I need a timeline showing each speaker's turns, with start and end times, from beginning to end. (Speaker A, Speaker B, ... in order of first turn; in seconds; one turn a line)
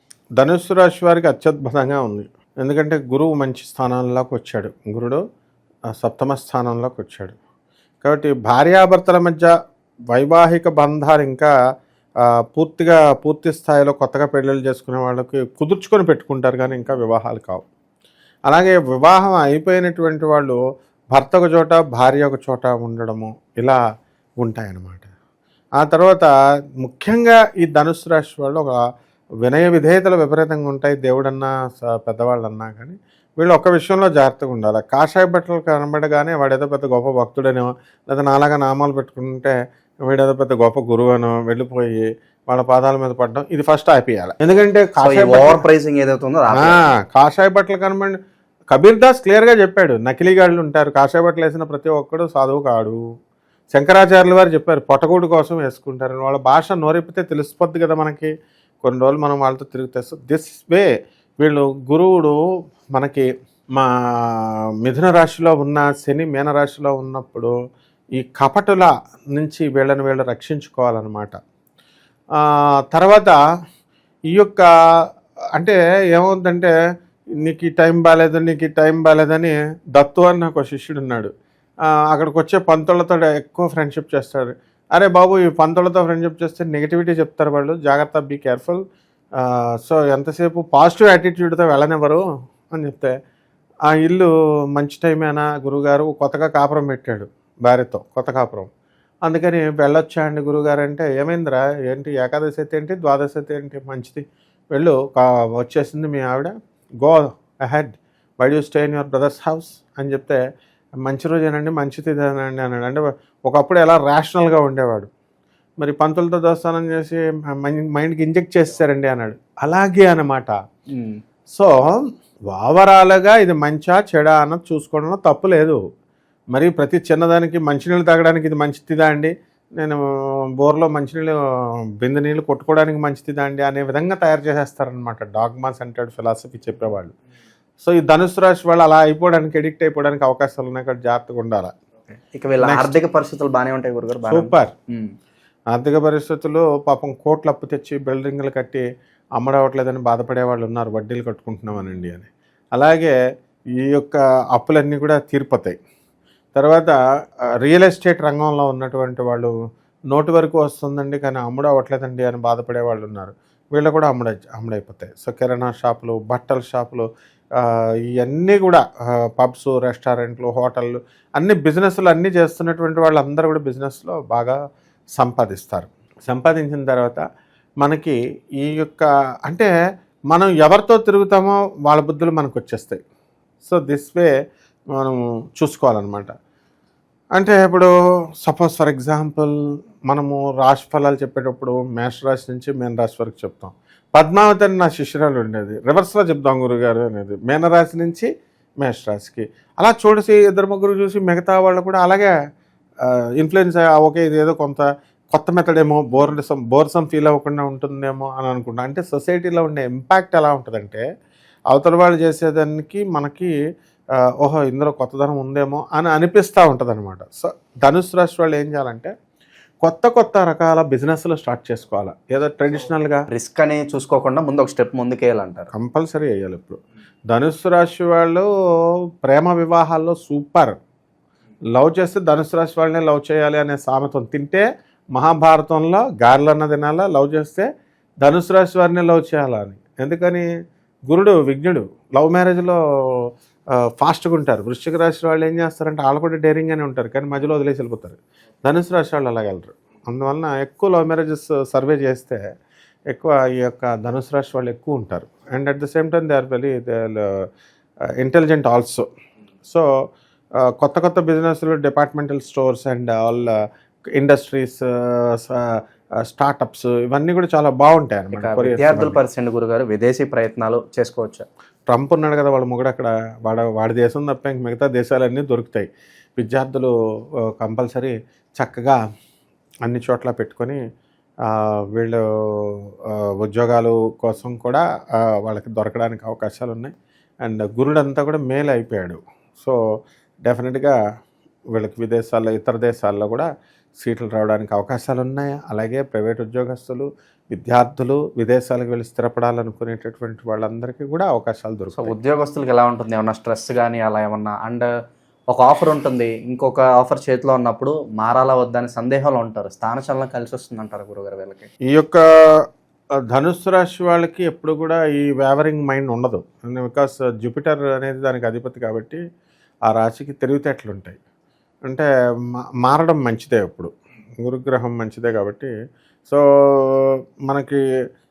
Speaker A: 0.4-5.2
Speaker A: 6.0-7.4
Speaker A: 8.0-9.5
Speaker A: 10.1-11.5
Speaker A: 12.5-17.7
Speaker A: 18.5-20.6
Speaker A: 21.1-23.8
Speaker A: 24.4-25.1
Speaker A: 25.8-26.3
Speaker A: 26.8-28.8
Speaker A: 29.4-45.6
Speaker B: 45.0-46.9
Speaker A: 46.5-48.2
Speaker A: 48.7-53.0
Speaker A: 53.7-58.3
Speaker A: 58.8-60.9
Speaker A: 61.4-62.4
Speaker A: 63.0-67.5
Speaker A: 68.2-71.3
Speaker A: 72.4-73.4
Speaker A: 74.3-74.7
Speaker A: 75.6-76.7
Speaker A: 77.4-81.3
Speaker A: 82.1-88.8
Speaker A: 89.4-93.2
Speaker A: 93.9-98.7
Speaker A: 99.3-110.4
Speaker A: 111.0-115.1
Speaker A: 115.8-120.5
Speaker B: 120.9-121.2
Speaker A: 121.5-125.8
Speaker A: 126.5-130.0
Speaker A: 130.6-131.4
Speaker A: 132.0-137.2
Speaker A: 137.8-141.7
Speaker B: 142.1-145.1
Speaker A: 142.6-142.9
Speaker A: 144.3-144.7
Speaker A: 145.7-148.8
Speaker A: 149.4-153.2
Speaker A: 153.8-155.8
Speaker A: 156.6-157.0
Speaker A: 157.6-159.5
Speaker A: 160.1-168.9
Speaker A: 169.4-174.6
Speaker A: 175.2-177.2
Speaker A: 177.8-179.7
Speaker A: 180.3-183.0
Speaker A: 183.6-184.3
Speaker A: 185.0-186.3
Speaker A: 187.4-187.9
Speaker A: 188.4-189.6
Speaker A: 190.1-198.3
Speaker A: 198.8-202.3
Speaker A: 203.1-211.0
Speaker A: 211.7-213.5
Speaker A: 214.4-219.1
Speaker A: 219.8-223.3
Speaker B: 223.3-225.7
Speaker A: 225.7-226.8
Speaker A: 227.3-228.5
Speaker A: 229.2-230.7
Speaker A: 231.8-234.7
Speaker A: 235.2-237.7
Speaker A: 238.2-240.5
Speaker A: 241.1-243.3
Speaker A: 244.0-252.4
Speaker A: 253.1-257.4
Speaker A: 258.2-259.1
Speaker A: 260.6-263.6
Speaker A: 264.2-269.2
Speaker B: 268.3-271.4
Speaker A: 271.9-276.9
Speaker A: 277.6-279.0
Speaker A: 279.8-280.8
Speaker A: 281.5-286.9
Speaker A: 287.4-289.8
Speaker A: 290.5-291.0
Speaker A: 291.8-293.5
Speaker A: 294.0-302.1
Speaker B: 301.9-304.9
Speaker B: 305.5-311.7
Speaker A: 311.9-312.6
Speaker A: 313.3-319.2
Speaker A: 319.9-321.2
Speaker A: 322.8-323.9
Speaker A: 324.4-325.7
Speaker A: 326.3-327.8